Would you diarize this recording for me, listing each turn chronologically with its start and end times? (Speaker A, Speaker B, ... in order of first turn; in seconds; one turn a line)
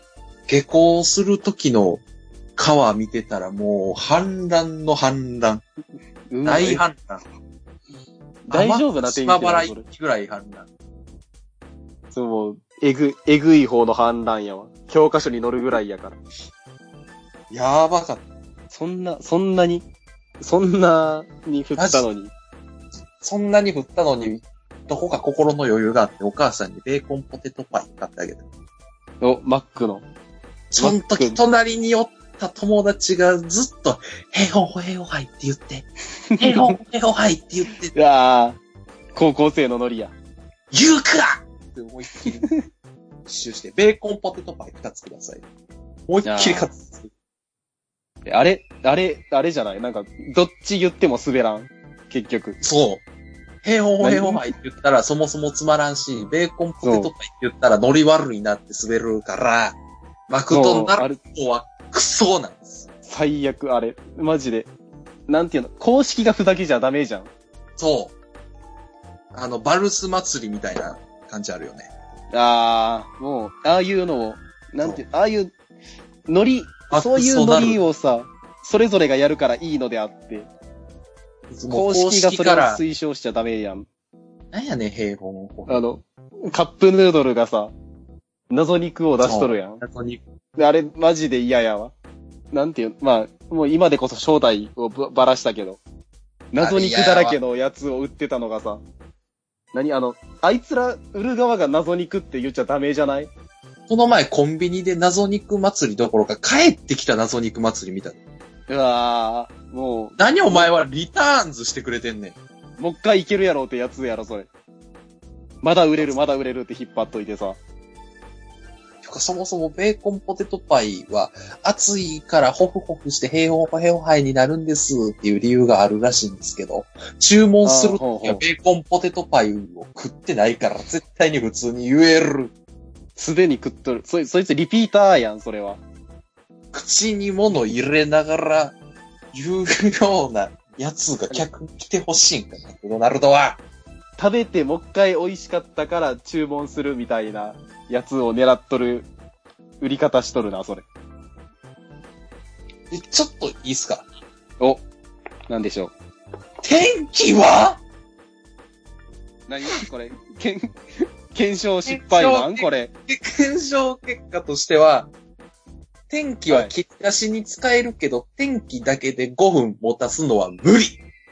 Speaker A: 0.5-2.0
Speaker A: 2.6-5.6
Speaker B: 6.3-6.8
Speaker A: 6.5-7.2
Speaker A: 8.5-10.7
Speaker B: 8.5-9.8
Speaker B: 12.1-16.2
Speaker A: 17.5-18.2
Speaker B: 18.7-19.9
Speaker B: 20.4-22.3
Speaker A: 21.8-22.1
Speaker A: 23.2-28.4
Speaker B: 29.2-30.0
Speaker A: 30.7-35.9
Speaker B: 30.8-31.4
Speaker B: 36.4-36.8
Speaker A: 36.4-37.9
Speaker B: 37.9-38.6
Speaker B: 39.1-40.1
Speaker A: 40.7-42.5
Speaker A: 43.3-45.5
Speaker A: 46.1-47.1
Speaker B: 46.2-46.7
Speaker B: 48.3-52.6
Speaker A: 52.6-53.0
Speaker A: 53.6-59.8
Speaker B: 54.0-54.5
Speaker B: 56.8-57.1
Speaker A: 60.3-62.9
Speaker B: 60.5-61.2
Speaker B: 63.0-64.7
Speaker B: 65.3-67.3
Speaker A: 67.8-68.2
Speaker A: 69.3-71.9
Speaker B: 72.3-75.5
Speaker B: 76.3-80.5
Speaker A: 76.9-77.9
Speaker A: 81.5-82.8
Speaker B: 81.7-83.9
Speaker A: 84.5-85.8
Speaker B: 85.7-87.7
Speaker B: 88.5-89.8
Speaker A: 89.2-90.2
Speaker B: 90.6-91.9
Speaker B: 92.5-95.8
Speaker B: 96.5-98.8
Speaker A: 96.6-97.4
Speaker B: 99.7-103.3
Speaker A: 103.9-108.2
Speaker B: 108.7-110.7
Speaker A: 110.2-112.4
Speaker B: 112.8-114.5
Speaker B: 115.6-117.6
Speaker A: 119.0-132.5
Speaker B: 127.6-128.4
Speaker B: 133.2-135.8
Speaker A: 136.7-138.8
Speaker A: 139.3-143.6
Speaker B: 144.2-149.1
Speaker B: 149.8-150.8
Speaker A: 152.9-154.1
Speaker B: 155.5-155.9
Speaker A: 156.6-157.8
Speaker B: 159.5-160.8
Speaker B: 161.3-162.9
Speaker A: 161.9-165.1
Speaker A: 166.1-171.0
Speaker B: 166.5-166.8